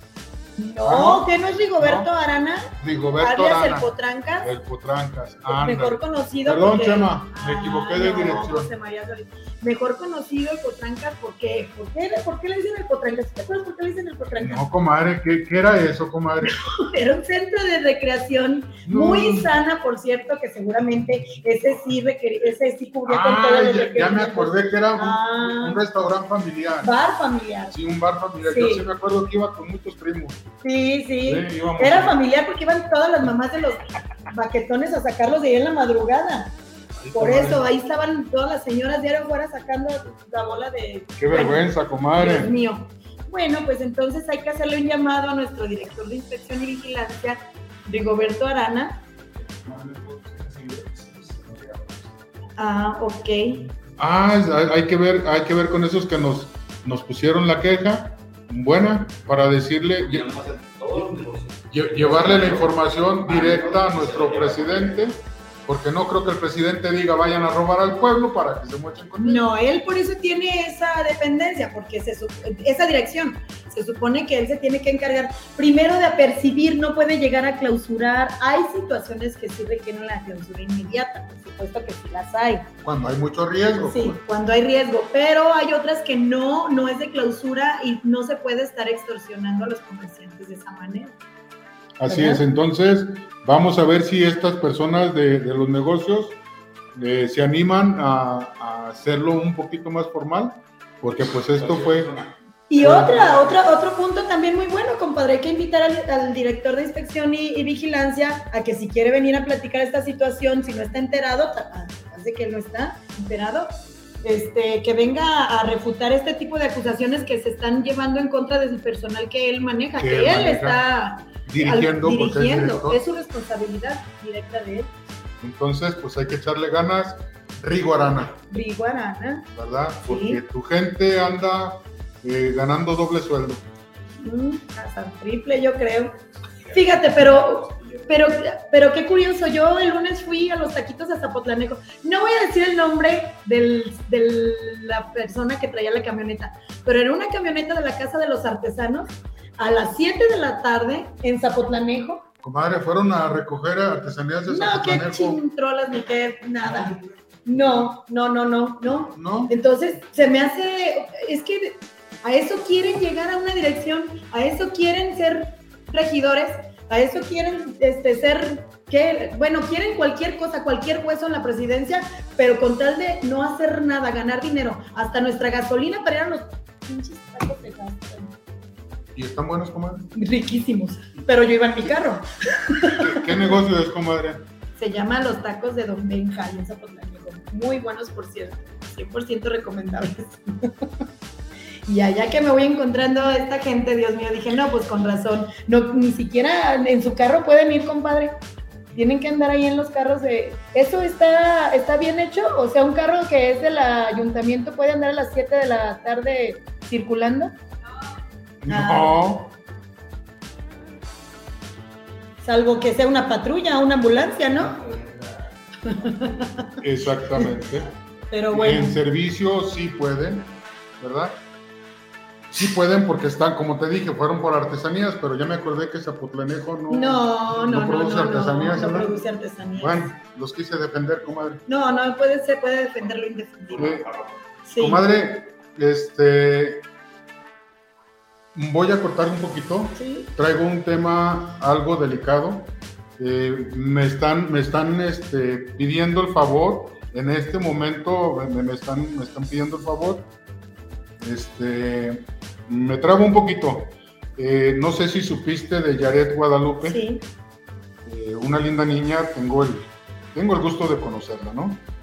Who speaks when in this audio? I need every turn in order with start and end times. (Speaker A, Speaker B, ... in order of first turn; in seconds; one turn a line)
Speaker A: 0.6-4.5
Speaker B: 0.8-2.1
Speaker B: 2.8-8.7
Speaker A: 5.5-14.6
Speaker B: 14.4-16.6
Speaker A: 16.5-25.8
Speaker B: 18.9-19.5
Speaker B: 23.1-26.9
Speaker A: 26.8-27.8
Speaker B: 27.7-30.4
Speaker A: 28.4-28.9
Speaker A: 30.6-36.5
Speaker B: 31.2-32.2
Speaker B: 37.0-37.7
Speaker A: 37.1-49.0
Speaker B: 41.2-42.5
Speaker C: 49.4-52.1
Speaker A: 52.6-53.6
Speaker B: 54.0-60.3
Speaker C: 60.0-65.0
Speaker B: 61.7-69.4
Speaker A: 69.2-82.7
Speaker B: 82.8-84.2
Speaker A: 83.8-91.2
Speaker B: 92.0-96.4
Speaker A: 92.1-92.4
Speaker B: 97.0-102.1
Speaker C: 101.5-102.3
Speaker A: 102.7-113.7
Speaker B: 102.8-103.5
Speaker A: 114.2-124.9
Speaker B: 120.0-120.8
Speaker B: 121.5-123.0
Speaker B: 125.4-128.4
Speaker A: 128.5-129.5
Speaker B: 129.5-133.6
Speaker A: 130.1-130.4
Speaker A: 134.2-136.1
Speaker C: 136.7-138.1
Speaker A: 136.7-152.2
Speaker B: 152.4-155.4
Speaker A: 154.5-178.3
Speaker B: 159.1-159.5
Speaker B: 179.2-180.1
Speaker A: 180.1-183.5
Speaker B: 183.0-184.5
Speaker A: 184.8-190.9
Speaker A: 191.9-198.3
Speaker A: 198.9-207.6
Speaker B: 208.6-209.5
Speaker A: 208.7-209.2
Speaker A: 212.4-214.8
Speaker C: 214.7-215.3
Speaker A: 215.8-216.8
Speaker B: 216.8-217.9
Speaker A: 218.3-219.0
Speaker B: 218.5-221.4
Speaker B: 222.5-229.1
Speaker A: 226.9-230.1
Speaker B: 229.8-231.6
Speaker A: 231.7-233.8
Speaker C: 233.7-234.4
Speaker B: 233.8-234.1
Speaker A: 234.7-235.0
Speaker B: 234.8-236.8
Speaker B: 238.5-250.3
Speaker A: 239.9-240.3
Speaker B: 251.2-257.0
Speaker A: 256.8-257.2
Speaker B: 258.1-261.8